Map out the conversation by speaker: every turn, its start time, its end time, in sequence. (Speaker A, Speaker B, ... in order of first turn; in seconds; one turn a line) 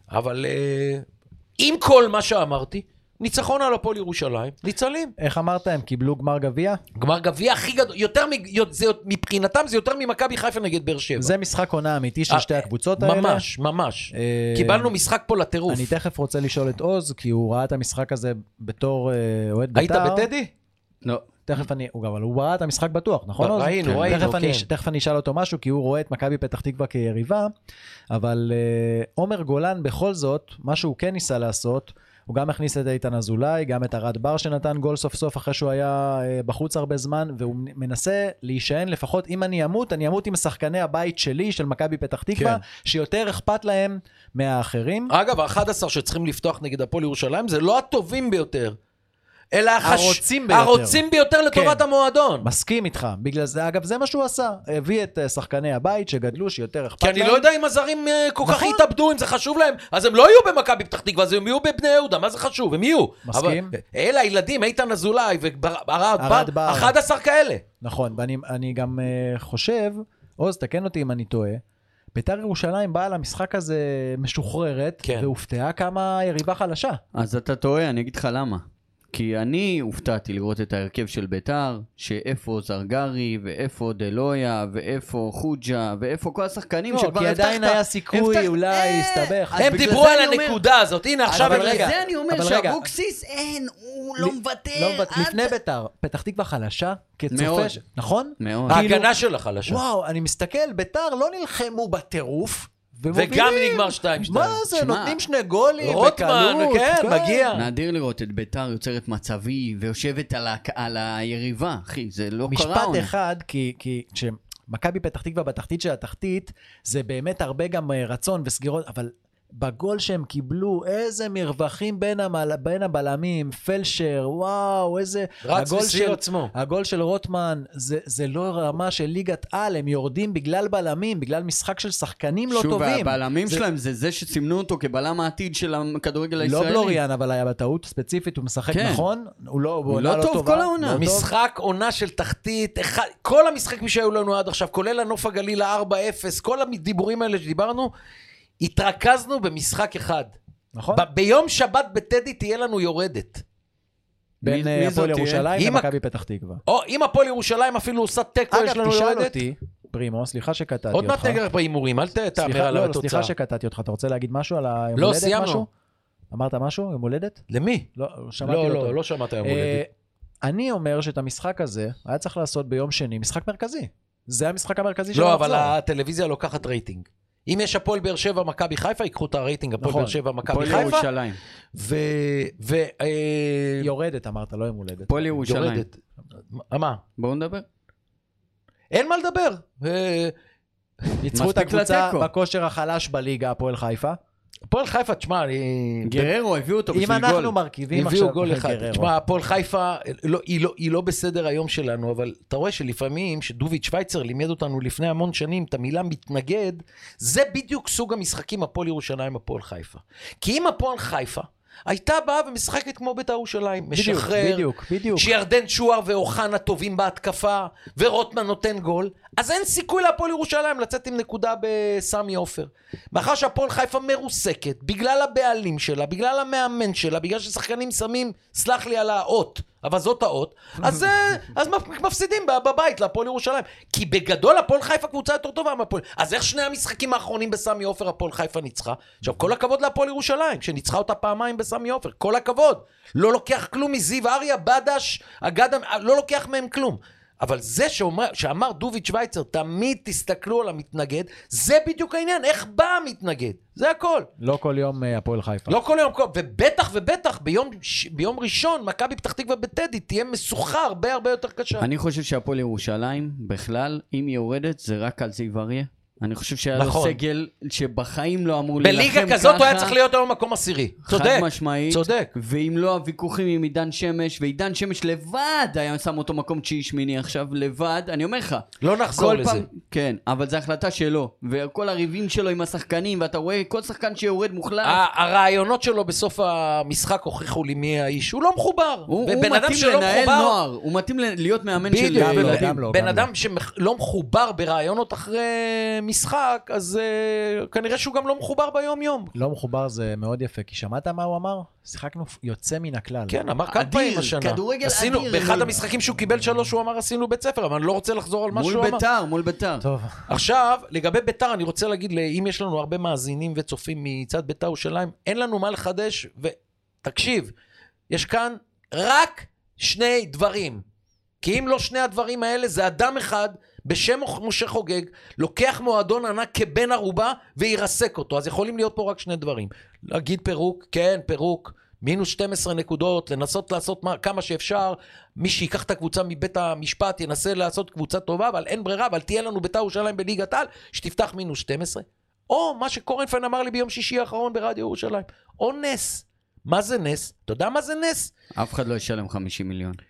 Speaker A: 0.1-1.1
Speaker A: 1.6-5.1
Speaker B: 5.2-6.8
Speaker A: 7.0-11.3
Speaker B: 11.2-13.4
Speaker A: 12.3-15.9
Speaker B: 14.1-14.9
Speaker B: 15.7-20.3
Speaker A: 19.8-20.5
Speaker B: 21.5-27.5
Speaker A: 23.4-24.7
Speaker C: 23.8-24.3
Speaker B: 28.1-45.1
Speaker A: 42.4-42.6
Speaker A: 45.1-48.8
Speaker A: 49.5-52.5
Speaker B: 49.8-51.8
Speaker B: 52.4-57.5
Speaker A: 57.0-67.6
Speaker B: 58.5-58.9
Speaker B: 63.3-63.7
Speaker B: 66.2-67.0
Speaker B: 67.8-71.6
Speaker B: 72.1-77.0
Speaker A: 75.0-75.3
Speaker C: 77.1-90.6
Speaker B: 86.9-89.9
Speaker A: 89.6-91.9
Speaker C: 91.3-95.5
Speaker B: 91.4-92.9
Speaker B: 94.2-99.1
Speaker C: 97.3-97.8
Speaker C: 98.4-98.8
Speaker A: 98.7-99.8
Speaker B: 99.7-107.5
Speaker A: 103.1-104.6
Speaker C: 104.7-105.2
Speaker A: 105.8-107.7
Speaker C: 107.5-113.1
Speaker B: 112.5-133.6
Speaker A: 125.4-126.5
Speaker C: 132.5-137.0
Speaker B: 136.4-141.3
Speaker C: 138.7-139.1
Speaker C: 139.9-141.0
Speaker A: 140.9-147.9
Speaker A: 148.6-150.3
Speaker B: 150.8-151.1
Speaker A: 150.9-153.4
Speaker C: 154.4-155.5
Speaker B: 154.4-156.6
Speaker A: 155.6-155.9
Speaker A: 156.7-159.4
Speaker B: 158.5-161.4
Speaker A: 160.9-163.3
Speaker B: 162.4-165.7
Speaker A: 165.0-165.7
Speaker B: 166.3-167.4
Speaker A: 167.5-167.9
Speaker B: 168.0-169.9
Speaker A: 168.4-169.8
Speaker B: 170.4-175.7
Speaker A: 175.1-181.1
Speaker B: 179.8-180.9
Speaker C: 180.5-181.4
Speaker A: 181.7-183.9
Speaker B: 183.8-185.3
Speaker C: 185.1-185.8
Speaker A: 185.4-186.0
Speaker A: 186.6-187.0
Speaker C: 187.2-187.7
Speaker A: 188.9-190.3
Speaker B: 191.2-194.2
Speaker C: 191.3-192.3
Speaker A: 194.7-196.3
Speaker C: 196.1-197.6
Speaker B: 196.9-199.1
Speaker A: 197.9-254.3
Speaker B: 213.9-215.3
Speaker B: 254.4-255.8
Speaker A: 255.7-261.9
Speaker C: 261.8-270.0
Speaker A: 266.8-267.2
Speaker A: 268.8-272.3
Speaker C: 271.1-285.0
Speaker A: 278.8-279.7
Speaker A: 284.8-290.6
Speaker C: 289.1-292.8
Speaker A: 291.9-299.3
Speaker B: 292.2-293.3
Speaker B: 299.4-303.4
Speaker A: 303.3-309.0
Speaker C: 303.7-305.8
Speaker B: 306.1-306.6
Speaker C: 308.5-309.9
Speaker B: 309.8-310.3
Speaker A: 310.3-317.5
Speaker A: 318.1-320.8
Speaker A: 321.4-348.3
Speaker C: 348.6-350.0